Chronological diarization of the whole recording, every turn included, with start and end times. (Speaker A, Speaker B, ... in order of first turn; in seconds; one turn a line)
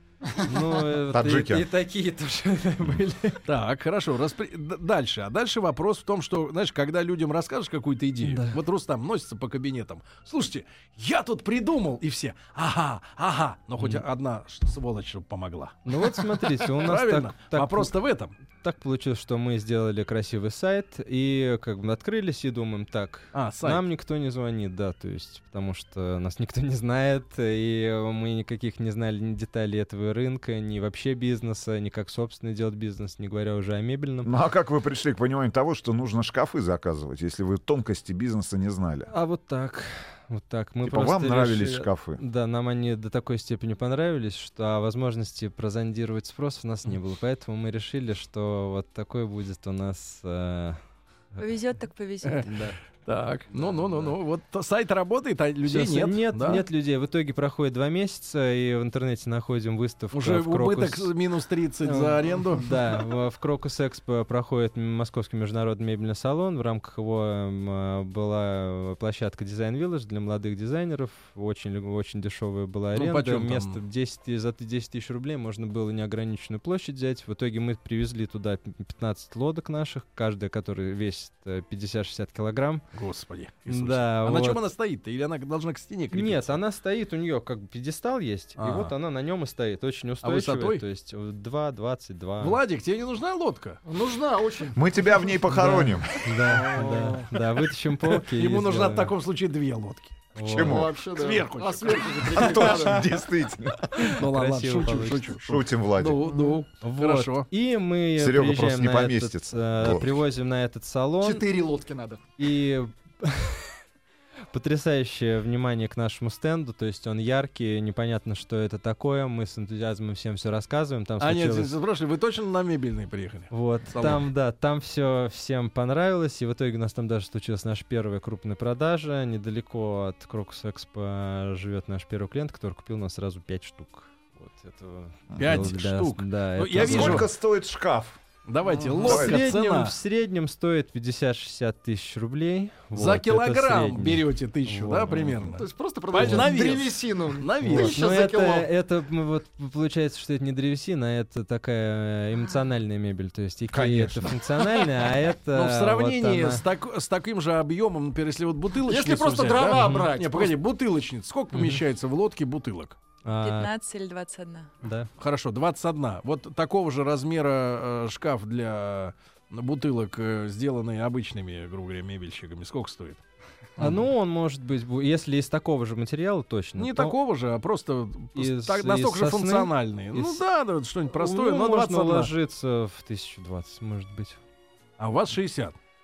Speaker A: 0.4-3.5
Speaker B: 1.1-1.7
Speaker C: 3.5-18.4
Speaker A: 8.2-8.6
Speaker A: 13.8-14.0
Speaker A: 15.9-17.9
Speaker A: 18.5-34.3
Speaker C: 23.3-23.9
Speaker B: 34.2-39.1
Speaker A: 39.1-50.8
Speaker B: 40.8-42.2
Speaker D: 51.4-52.5
Speaker C: 52.2-56.6
Speaker A: 52.4-52.8
Speaker A: 53.5-54.1
Speaker A: 55.6-61.1
Speaker C: 60.1-62.8
Speaker A: 61.9-82.8
Speaker C: 72.9-73.8
Speaker C: 82.9-86.6
Speaker A: 83.7-84.6
Speaker A: 86.1-92.6
Speaker C: 88.6-88.9
Speaker C: 90.2-90.8
Speaker C: 92.4-93.8
Speaker E: 93.9-95.3
Speaker B: 94.8-96.1
Speaker A: 95.5-99.1
Speaker E: 96.3-97.4
Speaker C: 98.2-100.3
Speaker A: 100.4-100.9
Speaker B: 100.4-101.0
Speaker E: 100.5-103.1
Speaker C: 101.1-103.0
Speaker B: 102.4-104.2
Speaker C: 104.0-107.5
Speaker A: 104.1-105.3
Speaker B: 105.5-106.2
Speaker E: 106.2-106.6
Speaker A: 106.8-111.4
Speaker B: 108.2-110.2
Speaker E: 111.2-112.2
Speaker A: 112.4-113.7
Speaker A: 114.5-121.7
Speaker C: 121.2-124.3
Speaker A: 123.5-137.3
Speaker B: 135.3-135.7
Speaker C: 135.4-137.3
Speaker B: 136.8-138.2
Speaker C: 138.5-140.0
Speaker E: 138.8-139.1
Speaker B: 139.0-139.4
Speaker A: 139.0-145.6
Speaker C: 142.9-148.0
Speaker E: 145.6-148.7
Speaker A: 146.2-146.5
Speaker A: 147.6-156.6
Speaker B: 153.7-154.4
Speaker C: 155.5-163.0
Speaker E: 158.9-160.6
Speaker A: 159.7-160.1
Speaker A: 161.5-161.8
Speaker A: 163.2-163.7
Speaker D: 163.4-164.7
Speaker A: 164.8-165.1
Speaker C: 165.2-173.2
Speaker C: 173.8-174.1
Speaker A: 173.8-177.2
Speaker C: 176.8-182.3
Speaker A: 178.3-180.4
Speaker A: 181.1-184.4
Speaker C: 185.0-185.8